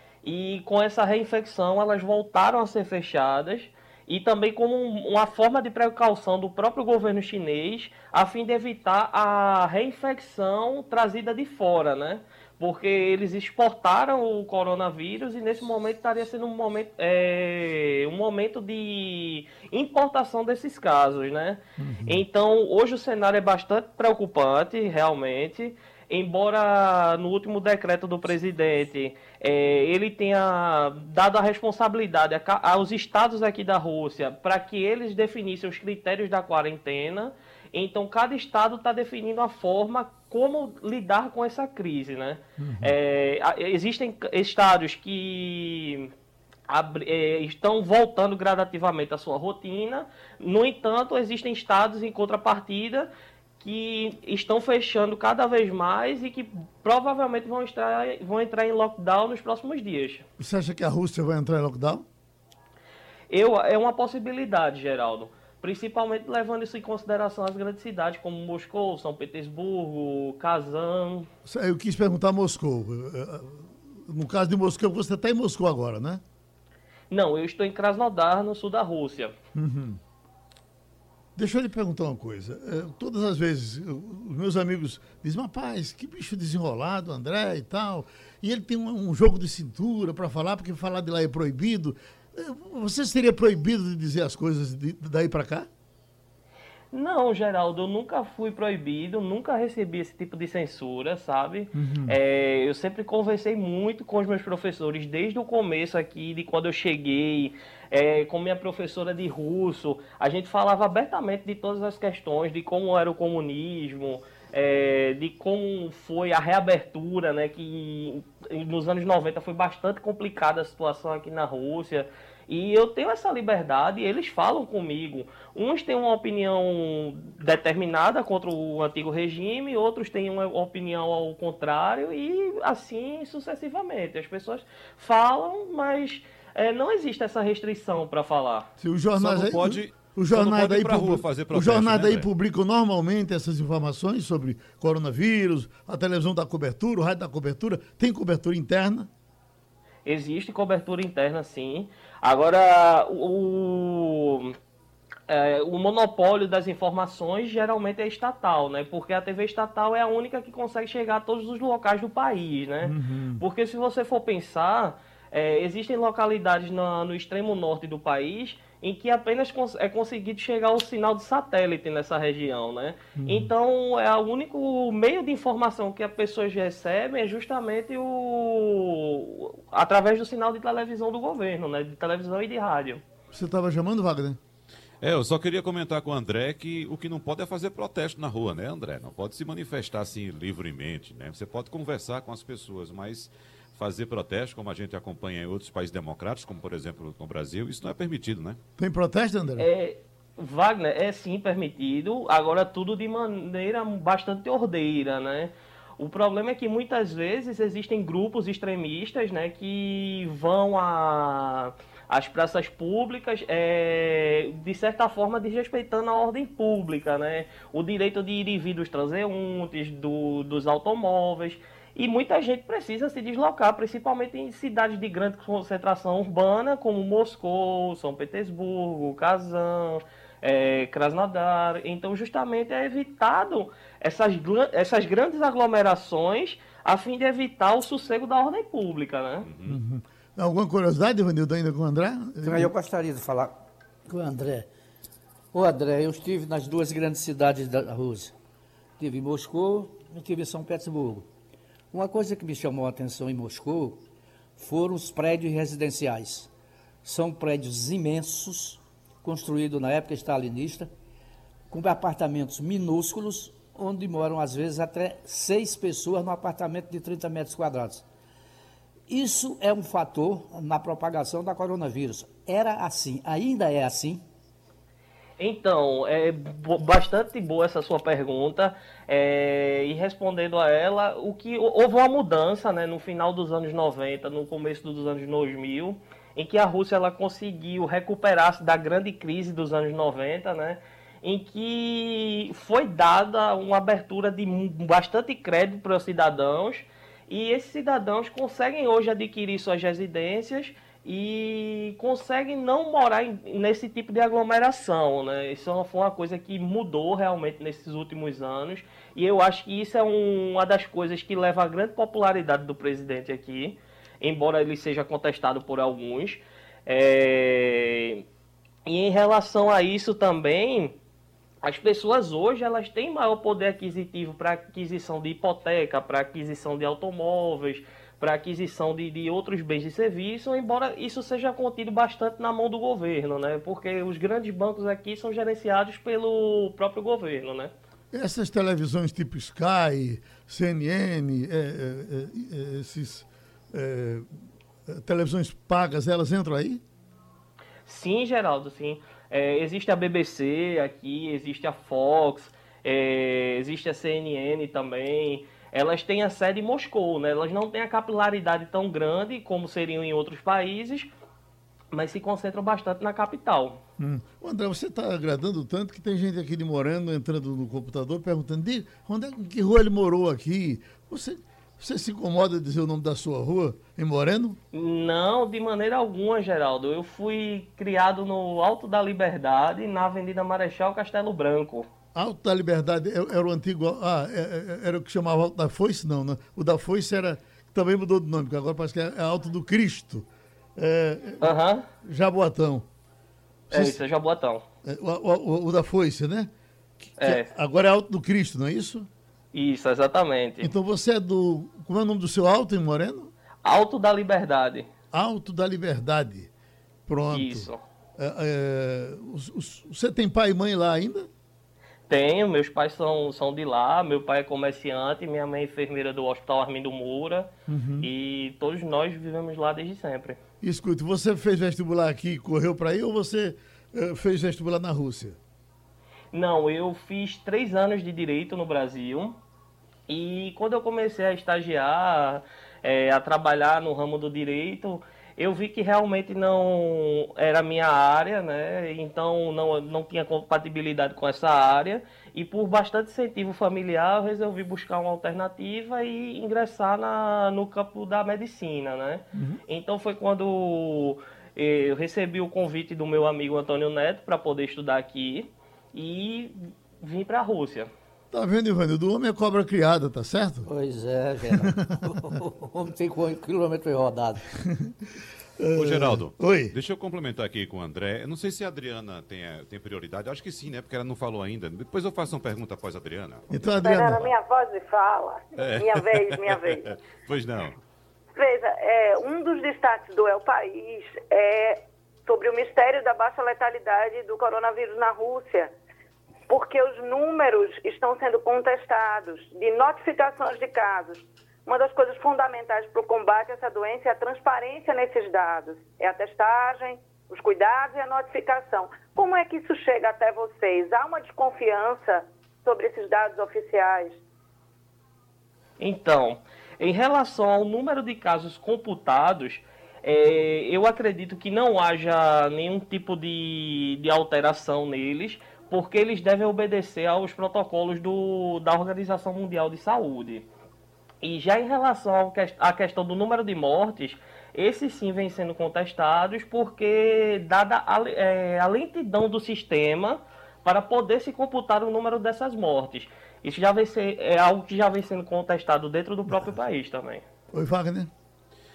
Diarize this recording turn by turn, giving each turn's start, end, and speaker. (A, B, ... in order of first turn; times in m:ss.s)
0:00.2-0:46.1 A
0:21.8-0:22.2 B
0:42.6-0:43.0 B
0:46.7-1:00.3 A
1:00.4-1:02.1 B
1:03.3-1:11.3 A
1:11.5-1:16.2 B
1:17.1-1:19.3 A
1:19.6-1:20.0 B
1:21.4-1:35.7 B
1:36.9-2:18.7 A
1:41.7-1:42.2 B
2:18.8-2:29.1 B
2:19.2-2:22.3 C
2:30.0-2:34.6 A
2:35.3-3:03.0 A
2:42.8-2:43.4 B
2:53.2-2:53.5 B
3:03.3-3:04.4 B
3:05.0-3:18.6 C
3:18.8-3:19.7 B
3:19.6-3:59.5 A
3:59.4-3:59.8 C
3:59.7-4:02.7 B
4:02.4-4:04.7 D
4:05.5-4:08.4 D
4:09.0-4:11.3 D
4:11.9-4:14.0 D
4:14.6-4:16.5 D
4:17.0-4:20.9 D
4:21.7-4:28.1 D
4:29.1-4:34.2 D
4:35.4-5:18.2 A
5:18.9-5:21.0 A
5:21.6-5:37.7 A
5:38.1-5:44.3 B
5:44.9-5:46.8 B
5:47.9-6:01.1 A
6:01.9-6:03.8 A
6:04.0-6:14.6 B
6:14.7-6:21.9 A
6:22.2-6:32.9 B
6:31.4-6:31.9 A
6:33.7-6:34.0 B
6:33.7-6:34.6 A
6:34.8-6:36.5 B
6:37.0-6:39.1 B
6:37.2-6:37.5 A
6:39.5-6:40.7 A
6:40.6-6:43.3 B
6:43.6-6:44.9 A
6:45.1-6:46.5 B
6:47.1-6:51.3 B
6:47.3-6:47.8 A
6:52.1-6:57.5 A
6:57.7-6:58.1 B
6:58.0-7:00.4 A
7:00.6-7:05.4 B
7:06.3-7:09.4 A
7:10.1-7:37.9 A
7:29.3-7:29.6 B
7:38.3-7:40.7 B
7:40.7-7:44.5 D
7:41.5-7:42.4 B
7:44.6-7:45.0 B
7:45.6-7:46.7 B
7:45.7-7:53.5 C
7:53.5-7:54.3 B
7:53.7-7:56.9 E
7:55.6-7:57.8 C
7:58.4-8:05.7 E
8:06.5-8:24.2 E
8:25.8-8:40.5 A
8:41.2-8:57.2 A
8:57.5-8:58.1 B